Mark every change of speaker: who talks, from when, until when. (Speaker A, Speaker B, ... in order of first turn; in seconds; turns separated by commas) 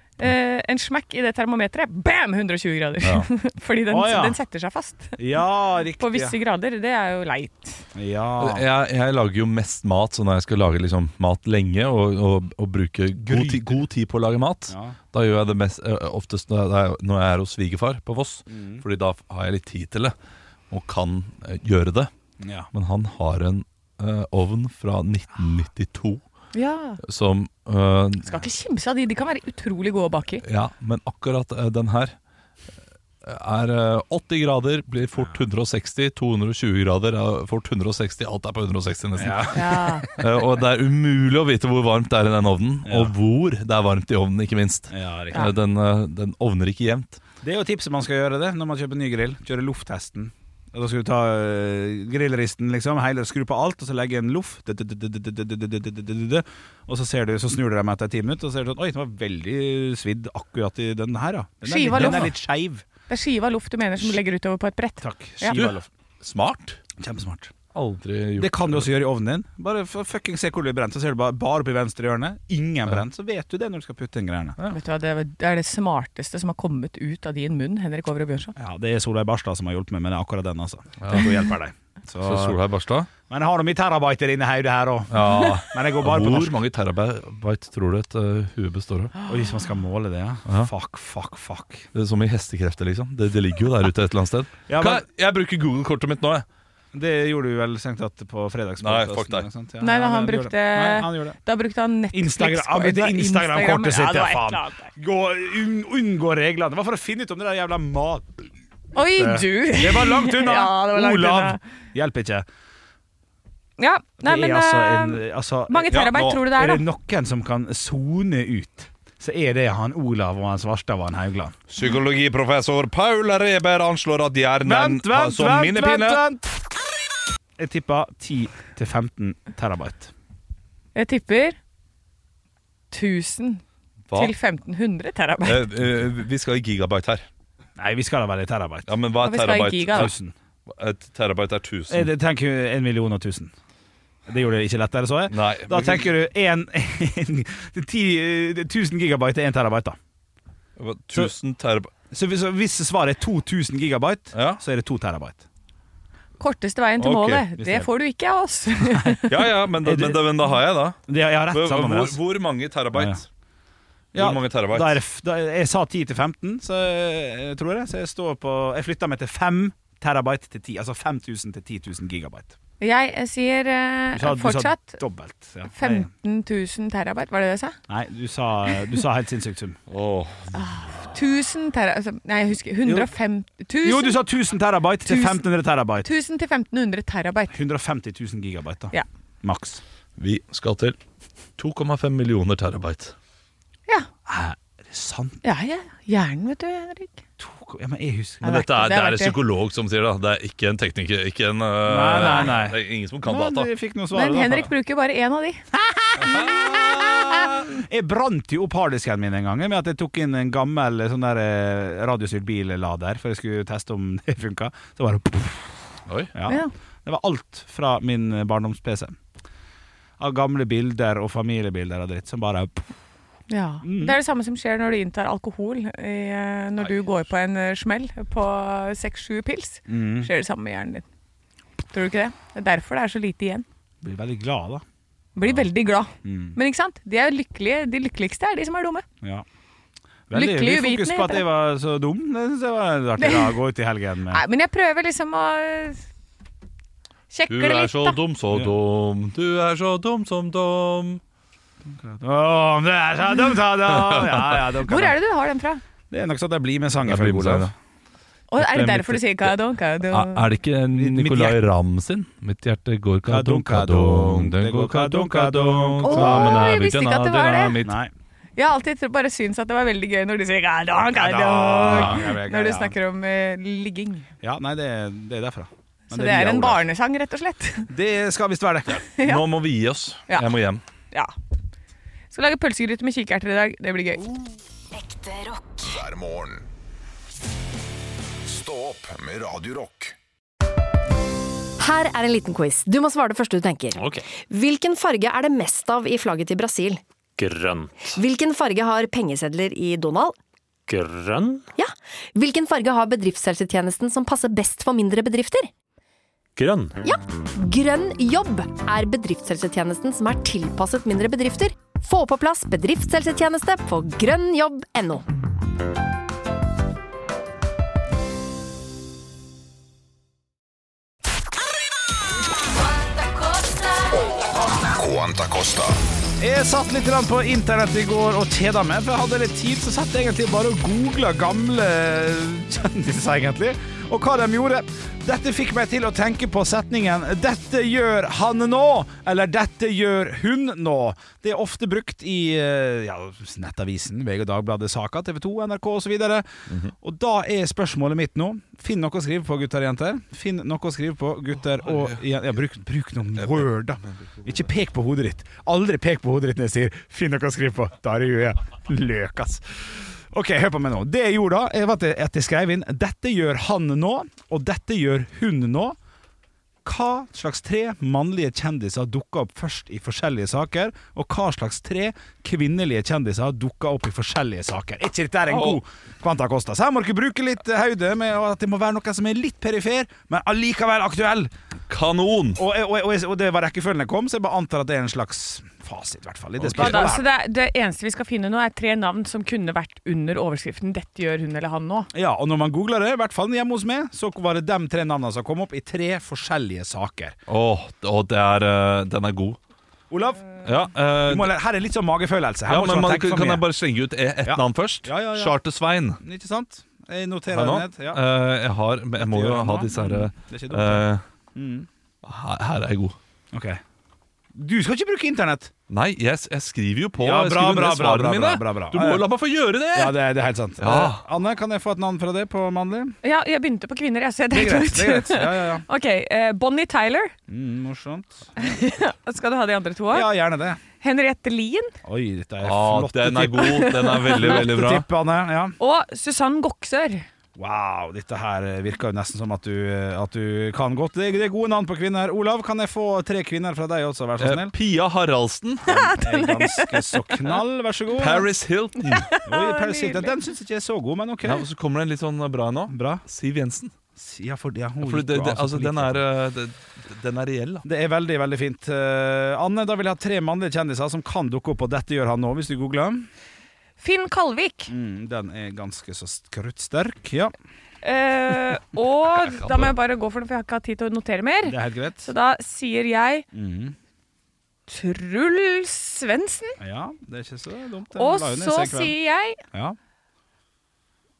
Speaker A: 0.2-5.5, Speaker B: 3.0-3.3, Speaker C: 3.9-4.4, Speaker C: 5.2-6.3, Speaker A: 6.0-7.8, Speaker C: 7.9-8.7, Speaker B: 8.4-20.1, Speaker C: 13.2-13.8, Speaker C: 14.7-15.0, Speaker C: 18.5-18.8, Speaker B: 20.7-22.1, Speaker C: 22.4-22.7, Speaker B: 22.7-26.2, Speaker A: 26.5-27.0, Speaker B: 27.0-28.4, Speaker A: 28.2-30.4, Speaker B: 30.4-32.1, Speaker B: 33.2-47.2, Speaker C: 39.2-40.2, Speaker A: 39.5-40.1, Speaker C: 42.8-43.1, Speaker C: 44.9-45.5, Speaker C: 47.4-62.8, Speaker A: 61.6-62.3, Speaker B: 61.9-62.3, Speaker A: 63.1-65.6, Speaker C: 65.0-65.9, Speaker B: 65.5-66.8, Speaker C: 67.0-67.5, Speaker B: 67.7-68.9, Speaker C: 68.4-74.6, Speaker A: 74.7-78.5, Speaker C: 78.6-82.6, Speaker B: 81.0-81.3, Speaker B: 82.2-83.1, Speaker C: 83.3-86.6, Speaker B: 85.1-89.1, Speaker A: 89.2-89.5, Speaker C: 89.3-91.9, Speaker B: 90.5-90.7, Speaker B: 91.9-96.5, Speaker C: 94.7-95.0, Speaker C: 96.9-101.4, Speaker B: 98.8-99.5, Speaker A: 99.8-104.9, Speaker C: 102.1-108.5, Speaker A: 108.9-111.6, Speaker C: 109.2-112.5, Speaker A: 113.8-116.8, Speaker C: 114.2-121.5, Speaker B: 115.9-116.5, Speaker B: 121.7-126.2, Speaker C: 124.6-126.5, Speaker C: 127.6-130.1, Speaker A: 130.9-131.6, Speaker A: 132.9-133.6, Speaker A: 134.1-135.7, Speaker B: 135.4-137.2, Speaker C: 137.8-138.9, Speaker B: 138.8-140.1, Speaker A: 139.2-140.1, Speaker C: 139.9-140.3, Speaker B: 140.7-142.1, Speaker C: 141.9-143.5, Speaker C: 144.3-150.0, Speaker B: 145.3-146.1, Speaker B: 150.8-151.9, Speaker C: 152.1-155.4, Speaker B: 154.3-154.6, Speaker A: 156.4-159.3, Speaker B: 157.0-157.4, Speaker C: 157.6-157.9, Speaker B: 159.3-163.2, Speaker C: 159.8-160.5, Speaker C: 161.1-162.2, Speaker C: 162.9-163.2, Speaker C: 164.1-172.5, Speaker B: 164.1-165.0, Speaker A: 172.8-175.0, Speaker C: 174.1-176.1, Speaker A: 175.8-177.8, Speaker C: 177.9-179.8, Speaker B: 179.9-180.6, Speaker A: 180.5-184.2, Speaker C: 182.8-183.1, Speaker C: 183.8-186.1, Speaker A: 185.1-185.4, Speaker A: 186.0-187.6, Speaker C: 187.5-189.8, Speaker B: 190.2-191.0, Speaker B: 191.6-193.1, Speaker C: 194.2-195.4, Speaker A: 195.4-197.2, Speaker C: 197.4-198.6, Speaker A: 198.4-199.4, Speaker B: 198.4-203.7, Speaker C: 201.8-204.7, Speaker A: 202.1-202.5, Speaker A: 204.1-205.6, Speaker C: 205.7-219.1, Speaker B: 206.2-207.0, Speaker A: 216.5-216.7, Speaker C: 220.2-222.9, Speaker A: 223.5-231.0, Speaker C: 223.8-224.2, Speaker C: 229.9-230.3, Speaker A: 231.9-233.6, Speaker C: 234.0-234.8, Speaker A: 235.3-239.0, Speaker C: 236.2-236.6, Speaker C: 240.3-244.4, Speaker A: 240.3-241.4, Speaker A: 243.2-243.6, Speaker A: 244.3-246.0, Speaker A: 247.3-248.2, Speaker B: 247.5-251.2, Speaker C: 251.9-255.2, Speaker B: 253.9-254.4, Speaker A: 254.8-255.8, Speaker C: 256.1-257.7, Speaker B: 257.0-257.7, Speaker A: 258.5-260.5, Speaker B: 258.6-259.5, Speaker B: 260.1-268.0, Speaker C: 260.9-261.6, Speaker C: 263.3-266.6, Speaker A: 266.0-267.8, Speaker C: 267.8-268.1, Speaker A: 268.6-274.3, Speaker C: 271.1-272.9, Speaker B: 271.9-272.2, Speaker C: 274.4-276.8, Speaker A: 276.1-277.9, Speaker C: 277.9-279.1, Speaker A: 279.1-279.4, Speaker B: 279.2-280.8, Speaker A: 280.3-280.5, Speaker A: 282.3-284.3, Speaker D: 285.8-286.7, Speaker D: 288.4-290.1, Speaker E: 291.8-297.0, Speaker F: 294.0-294.2, Speaker F: 297.4-298.1, Speaker E: 298.1-300.4, Speaker F: 300.9-301.7, Speaker E: 301.8-305.7, Speaker F: 306.6-307.0, Speaker E: 307.0-315.2, Speaker D: 324.8-326.0, Speaker C: 326.4-346.5, Speaker C: 347.0-365.9, Speaker B: 351.8-352.2, Speaker B: 353.4-353.7, Speaker C: 366.8-381.5, Speaker B: 375.5-375.8, Speaker B: 381.9-382.6, Speaker C: 382.6-387.2, Speaker B: 386.6-387.1, Speaker A: 386.8-392.1, Speaker C: 392.1-397.4, Speaker B: 397.5-399.6, Speaker C: 400.1-400.6, Speaker B: 400.6-401.5, Speaker C: 401.2-403.6, Speaker B: 402.7-406.2, Speaker C: 404.4-405.6, Speaker C: 406.2-408.2, Speaker B: 407.5-411.2, Speaker C: 409.2-411.9, Speaker B: 412.2-413.2, Speaker C: 413.5-413.8, Speaker C: 414.5-415.7, Speaker B: 415.9-420.2, Speaker C: 417.2-419.2, Speaker C: 419.9-423.1, Speaker B: 420.8-421.2, Speaker A: 423.2-427.3, Speaker C: 424.5-425.8, Speaker C: 427.5-428.8, Speaker A: 428.6-430.3, Speaker C: 430.1-430.8, Speaker A: 431.0-431.9, Speaker C: 432.0-435.8, Speaker B: 432.6-435.1, Speaker A: 433.6-434.6, Speaker A: 435.8-437.2, Speaker C: 437.6-444.7, Speaker B: 444.4-445.9, Speaker C: 445.8-448.4, Speaker A: 445.9-447.6, Speaker B: 448.2-449.3, Speaker A: 449.1-450.3, Speaker C: 449.4-451.6, Speaker B: 451.4-453.9, Speaker C: 452.9-453.2, Speaker C: 454.1-456.2, Speaker B: 455.0-457.9, Speaker C: 457.8-463.3, Speaker A: 464.0-464.9, Speaker C: 464.9-467.5, Speaker A: 468.0-473.5, Speaker B: 469.3-469.9, Speaker C: 471.6-472.3, Speaker C: 473.5-473.9, Speaker A: 474.9-476.8, Speaker C: 476.8-479.1, Speaker A: 478.1-479.6